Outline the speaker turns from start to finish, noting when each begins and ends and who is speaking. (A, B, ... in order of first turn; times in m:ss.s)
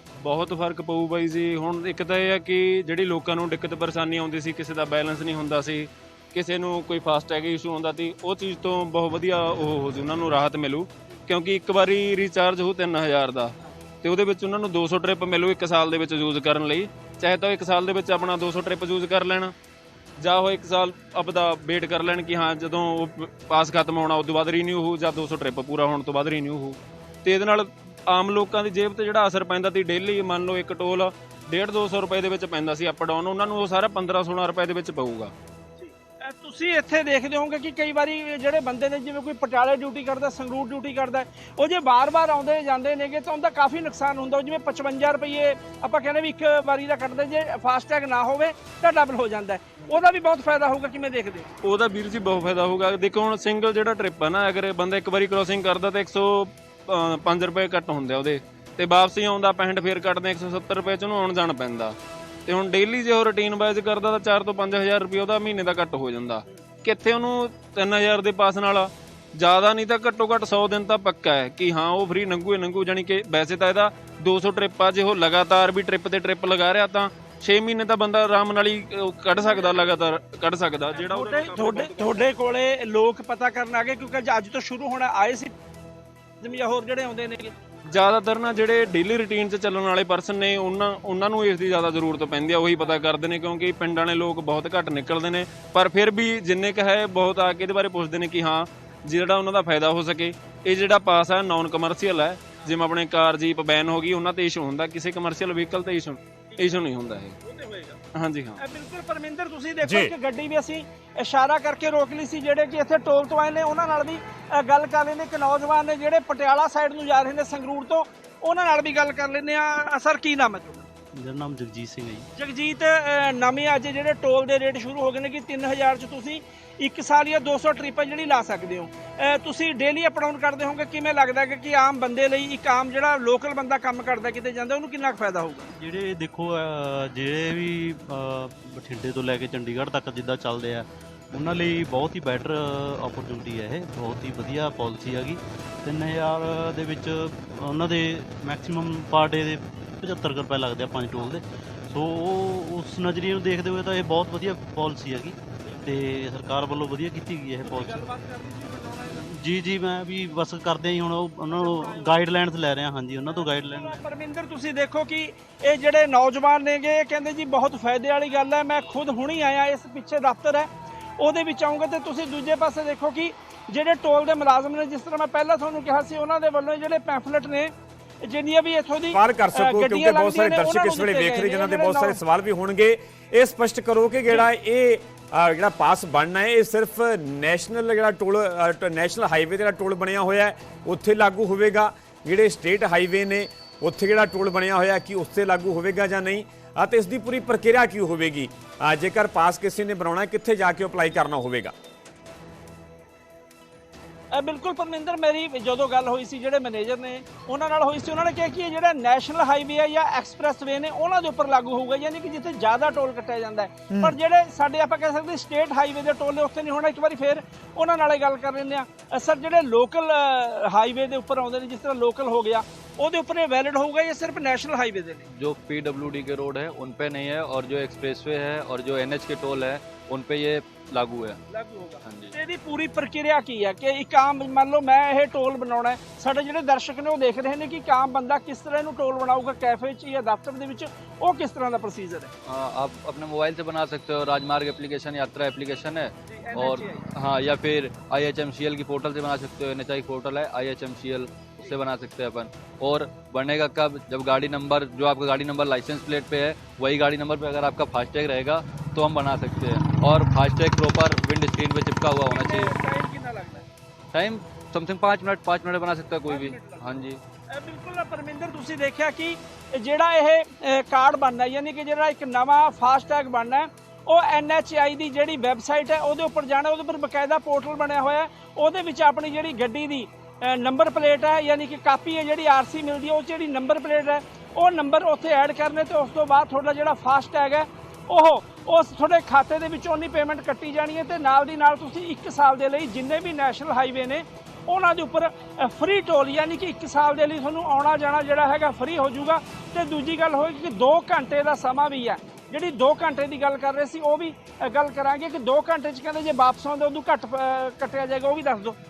0:00.2-0:19.5 A
0:20.2-0:35.3 A
0:35.8-0:51.5 B
0:51.6-1:02.0 A
1:02.5-1:22.3 A
1:21.0-1:25.5 B
1:26.4-1:27.5 B
1:27.9-1:47.4 A
1:47.4-1:48.0 B
1:48.1-1:48.6 A
1:48.6-2:00.9 B
1:49.8-1:50.1 C
2:01.2-2:02.2 D
2:02.4-2:15.7 B
2:15.8-2:38.0 D
2:37.6-2:39.2 B
2:39.2-2:43.8 D
2:41.5-2:42.2 B
2:43.3-3:02.2 B
2:59.1-3:21.7 C
3:24.3-3:45.2 B
3:45.3-3:51.4 E
3:51.5-4:02.3 B
3:52.0-3:52.3 E
4:02.4-4:22.7 E
4:06.3-4:07.1 B
4:22.2-4:23.6 B
4:24.1-4:27.2 E
4:26.3-4:26.8 B
4:27.5-5:08.8 B